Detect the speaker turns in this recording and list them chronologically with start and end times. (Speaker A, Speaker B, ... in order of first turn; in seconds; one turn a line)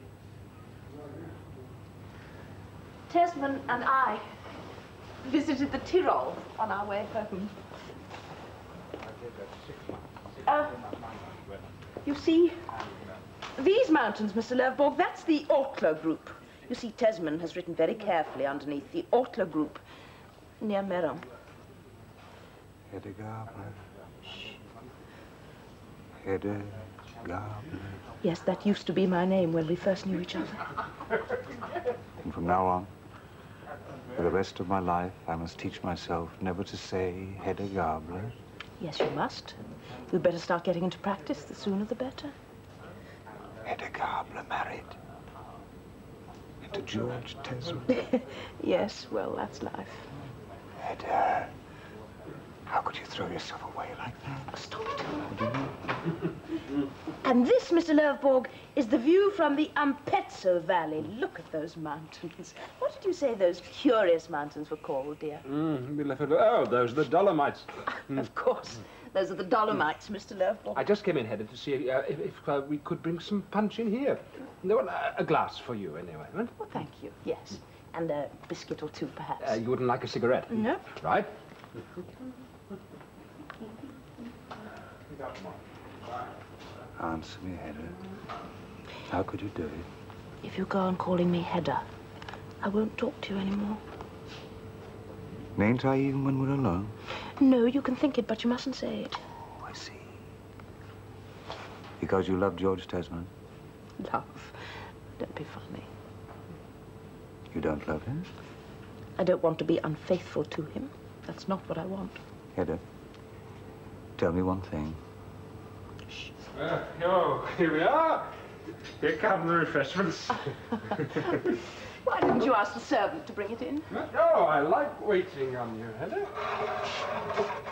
Speaker A: 3.1-4.3
Speaker A: 5.2-7.5
Speaker A: 10.4-10.8
Speaker A: 12.0-12.6
Speaker A: 13.5-19.8
Speaker A: 20.6-21.2
Speaker B: 22.9-23.8
Speaker B: 26.2-28.0
Speaker A: 28.2-30.9
Speaker B: 32.2-32.9
Speaker B: 34.1-38.3
Speaker A: 38.8-42.3
Speaker B: 43.6-45.0
Speaker B: 46.6-47.9
Speaker A: 47.9-50.1
Speaker B: 50.8-51.5
Speaker B: 52.7-54.5
Speaker A: 54.5-55.3
Speaker B: 55.3-55.8
Speaker A: 57.2-65.5
Speaker C: 65.5-67.8
Speaker A: 67.9-70.8
Speaker C: 70.7-76.5
Speaker A: 76.6-79.6
Speaker C: 79.4-81.3
Speaker A: 80.5-80.9
Speaker B: 87.0-88.0
Speaker B: 89.0-89.9
Speaker A: 90.4-91.8
Speaker A: 92.6-93.8
Speaker B: 95.5-97.0
Speaker A: 97.4-99.2
Speaker B: 99.6-100.2
Speaker B: 102.0-103.3
Speaker A: 104.0-105.9
Speaker B: 107.5-108.3
Speaker A: 109.2-112.2
Speaker B: 112.5-112.8
Speaker B: 114.2-115.0
Speaker C: 116.5-118.4
Speaker C: 119.0-121.4
Speaker A: 121.4-123.9
Speaker C: 123.9-126.4